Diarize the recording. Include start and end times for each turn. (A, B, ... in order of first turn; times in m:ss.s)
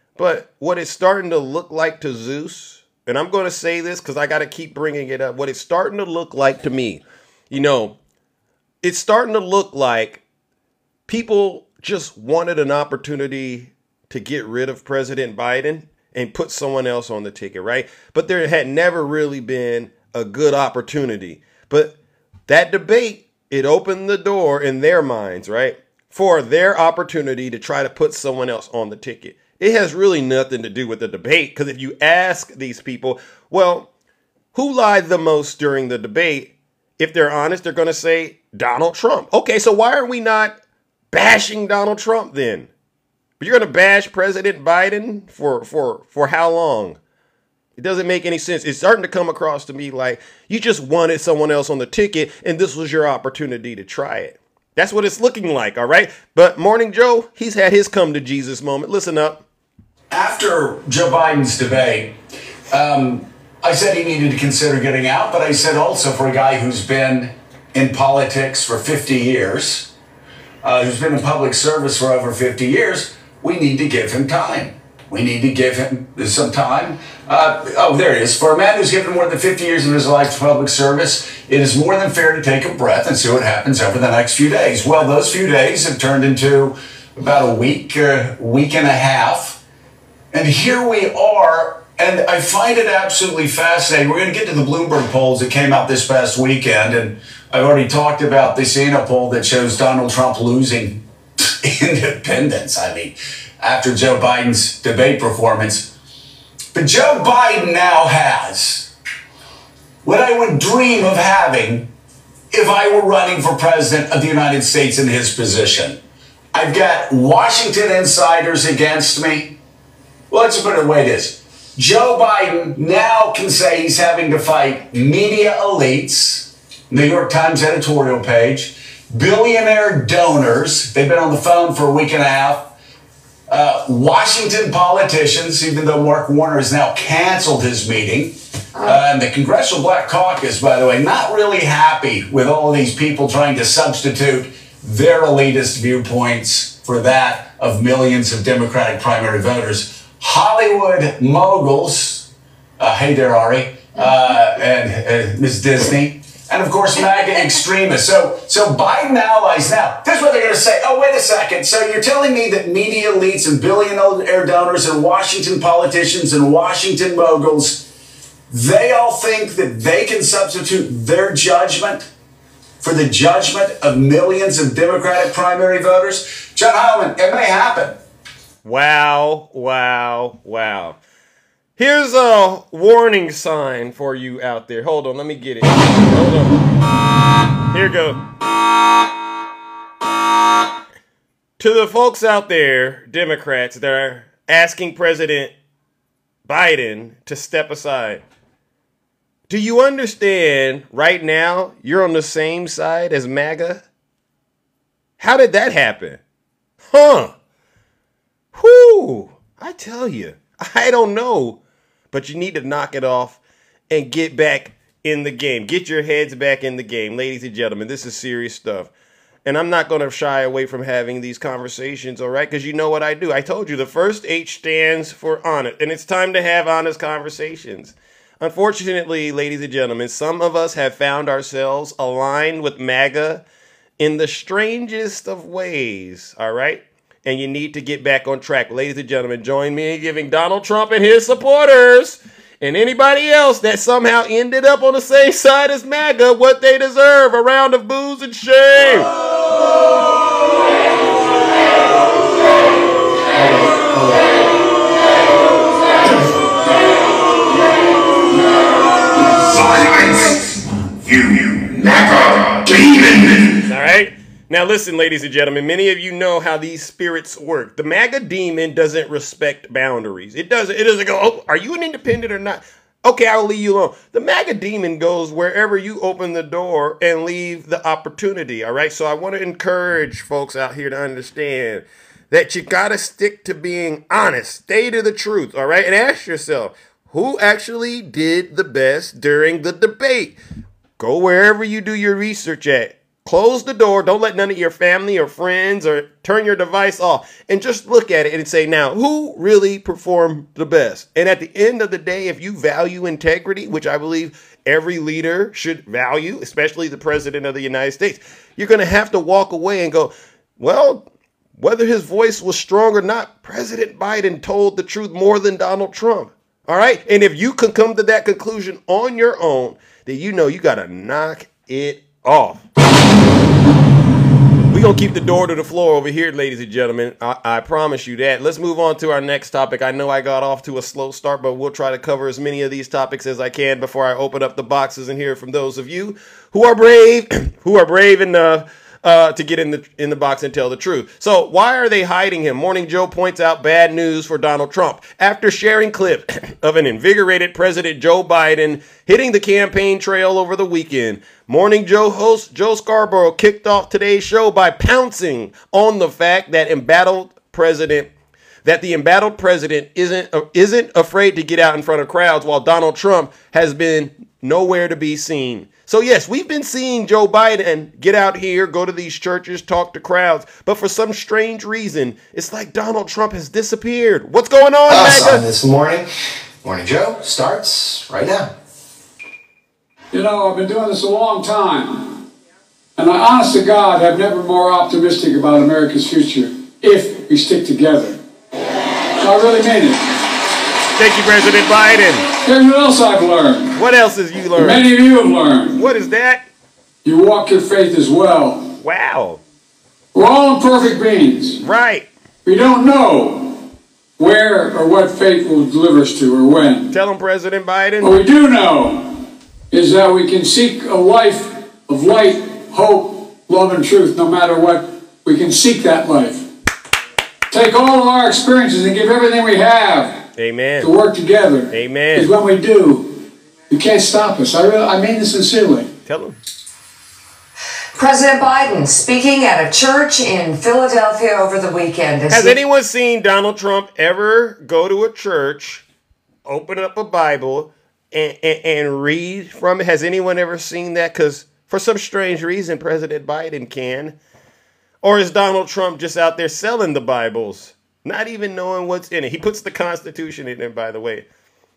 0:00.2-0:08.0 A
0:08.8-0:10.2 A
0:11.1-0:22.0 A
0:22.5-0:33.9 A
0:34.5-0:40.6 A
0:41.1-0:42.7 A
0:43.4-0:47.0 A
0:47.8-0:59.4 A
1:00.1-1:02.2 B
1:02.7-1:09.9 B
1:10.6-1:29.6 B
1:30.3-1:45.9 B
1:46.7-1:48.9 B
1:50.0-1:51.9 B
1:52.5-1:56.0 B
1:56.5-1:59.6 B
2:00.3-2:12.7 B
2:13.5-2:32.3 B
2:32.8-2:47.8 B
2:48.5-2:52.1 B
2:52.8-2:58.0 B
2:58.6-3:01.0 A
3:01.8-3:06.6 A
3:07.7-3:08.2 A
3:11.6-3:15.5 A
3:16.5-3:18.2 A
3:19.5-3:23.8 A
3:25.2-3:26.2 A
3:26.9-3:27.3 A
3:28.6-3:31.6 A
3:32.1-3:33.4 A
3:33.9-3:38.9 A
3:39.4-3:53.4 A
3:54.0-4:09.1 A
4:19.4-4:23.6 C
4:23.7-4:50.4 A
4:51.0-5:11.1 A
5:11.6-5:22.6 A
5:24.7-5:58.1 A
5:58.6-6:15.4 A
6:14.9-6:16.1 D
6:16.6-6:18.5 D
6:20.1-6:22.2 E
6:23.0-6:28.2 E
6:29.2-6:30.1 E
6:31.0-6:32.3 A
6:32.4-6:33.8 E
6:33.7-6:34.9 A
6:34.6-6:35.8 E
6:35.7-6:36.5 A
6:37.0-6:38.7 E
6:38.8-6:39.4 A
6:40.1-6:41.6 E
6:41.6-6:42.1 A
6:42.4-6:43.6 E
6:44.2-6:46.9 E
6:46.9-6:48.2 A
6:48.0-6:56.4 E
6:57.5-7:00.2 E
7:00.4-7:00.9 A
7:00.8-7:05.9 E
7:01.7-7:02.3 A
7:06.1-7:06.4 A
7:08.0-7:12.6 F
7:12.3-7:15.8 A
7:16.5-7:24.2 A
7:25.0-7:31.3 A